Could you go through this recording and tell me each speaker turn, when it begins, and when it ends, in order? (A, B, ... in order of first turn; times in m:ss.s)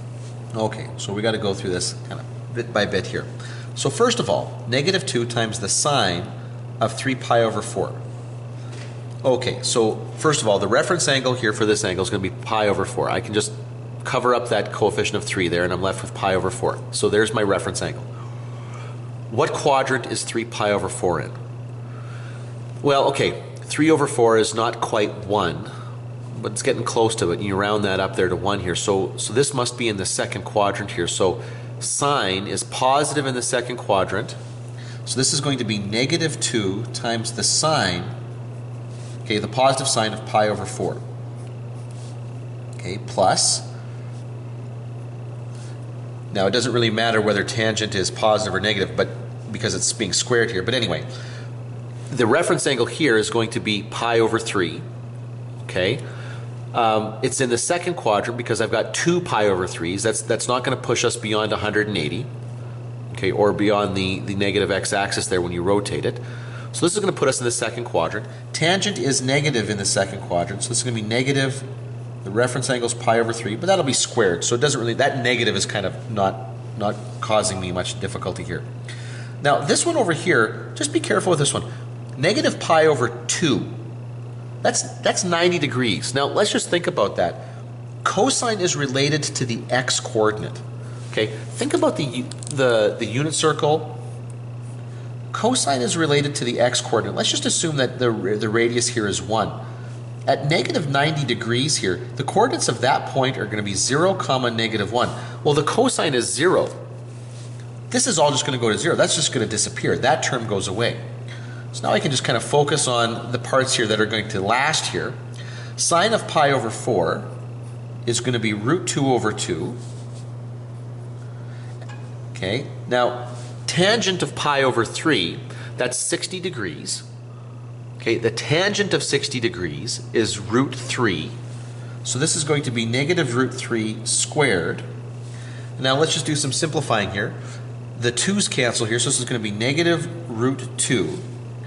0:00.5-0:08.0 A
0:09.2-0:18.1 A
0:19.3-0:21.4 A
0:22.8-0:25.7 A
0:26.3-0:34.4 A
0:35.0-0:38.1 A
0:39.2-0:41.0 A
0:42.8-0:43.6 A
0:46.3-0:51.0 A
0:52.1-0:54.8 A
0:55.6-0:56.0 A
0:56.7-1:02.3 A
1:03.1-1:06.2 A
1:06.7-1:11.7 A
1:12.2-1:18.7 A
1:19.4-1:21.7 A
1:22.2-1:23.7 A
1:24.6-1:27.5 A
1:28.0-1:34.0 A
1:35.3-1:39.6 A
1:40.3-1:46.8 A
1:47.9-1:51.0 A
1:51.7-1:55.2 A
1:55.8-1:57.3 A
1:58.1-1:59.8 A
2:02.3-2:07.1 A
2:08.0-2:11.4 A
2:12.0-2:14.8 A
2:15.8-2:17.4 A
2:18.0-2:21.2 A